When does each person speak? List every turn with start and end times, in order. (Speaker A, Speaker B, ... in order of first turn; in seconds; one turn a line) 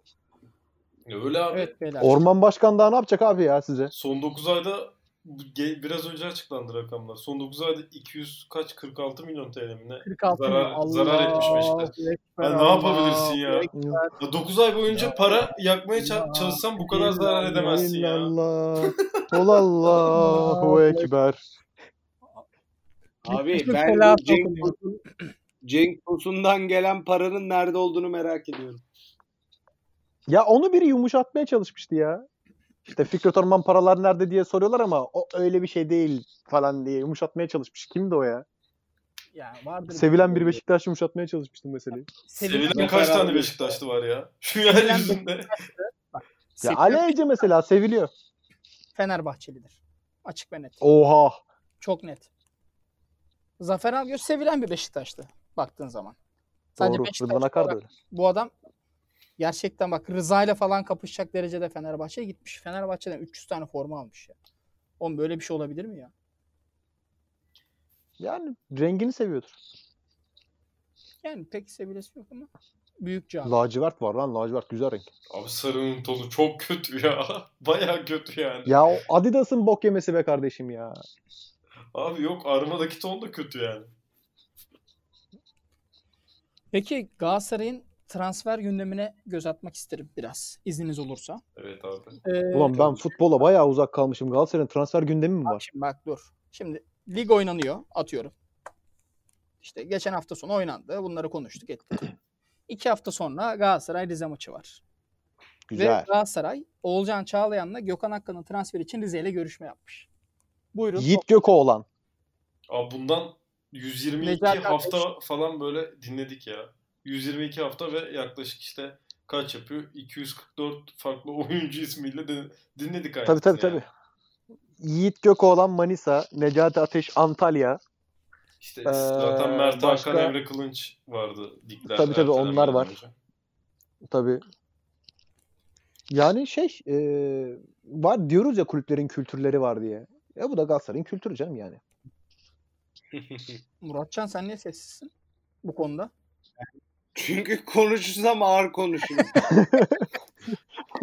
Speaker A: 1.1-1.7
Speaker B: 1.5-2.1
Speaker C: 2.0-3.9
Speaker A: 3.9-13.7
Speaker B: 10.0-14.1
Speaker C: 13.7-14.0
Speaker A: 14.2-18.3
Speaker B: 16.0-16.6
Speaker C: 16.9-21.4
Speaker B: 19.9-21.1
Speaker D: 23.2-24.8
Speaker B: 23.3-25.0
Speaker D: 25.6-28.8
Speaker C: 30.3-32.2
Speaker C: 32.9-38.5
Speaker B: 39.3-40.6
Speaker C: 39.9-42.1
Speaker B: 42.2-43.3
Speaker A: 42.4-45.5
Speaker D: 42.7-43.8
Speaker B: 44.7-47.4
Speaker C: 46.6-48.1
Speaker B: 48.9-50.8
Speaker C: 50.8-51.4
Speaker B: 51.8-52.3
Speaker B: 53.6-56.1
Speaker B: 56.8-58.5
Speaker C: 56.8-57.9
Speaker B: 59.4-64.3
Speaker B: 65.0-66.1
Speaker C: 68.2-69.5
Speaker B: 71.2-72.5
Speaker B: 73.0-73.5
Speaker C: 73.4-75.1
Speaker A: 75.3-79.0
Speaker C: 78.7-81.0
Speaker A: 81.9-83.9
Speaker B: 86.7-91.4
Speaker A: 91.5-92.2
Speaker B: 92.2-93.1
Speaker C: 92.5-95.6
Speaker B: 95.4-98.3
Speaker B: 99.6-102.1
Speaker B: 102.7-104.8
Speaker C: 105.7-106.1
Speaker B: 105.7-110.1
Speaker B: 110.7-111.3
Speaker C: 111.0-111.8
Speaker A: 112.7-123.8
Speaker B: 114.2-115.0
Speaker C: 123.2-123.9
Speaker C: 124.8-127.8
Speaker A: 128.6-133.1
Speaker C: 128.8-130.3
Speaker C: 131.9-132.9
Speaker C: 134.0-134.4
Speaker C: 136.1-141.8
Speaker D: 143.1-143.6
Speaker B: 143.8-145.1
Speaker B: 145.6-146.1
Speaker D: 146.6-149.4
Speaker C: 149.4-150.1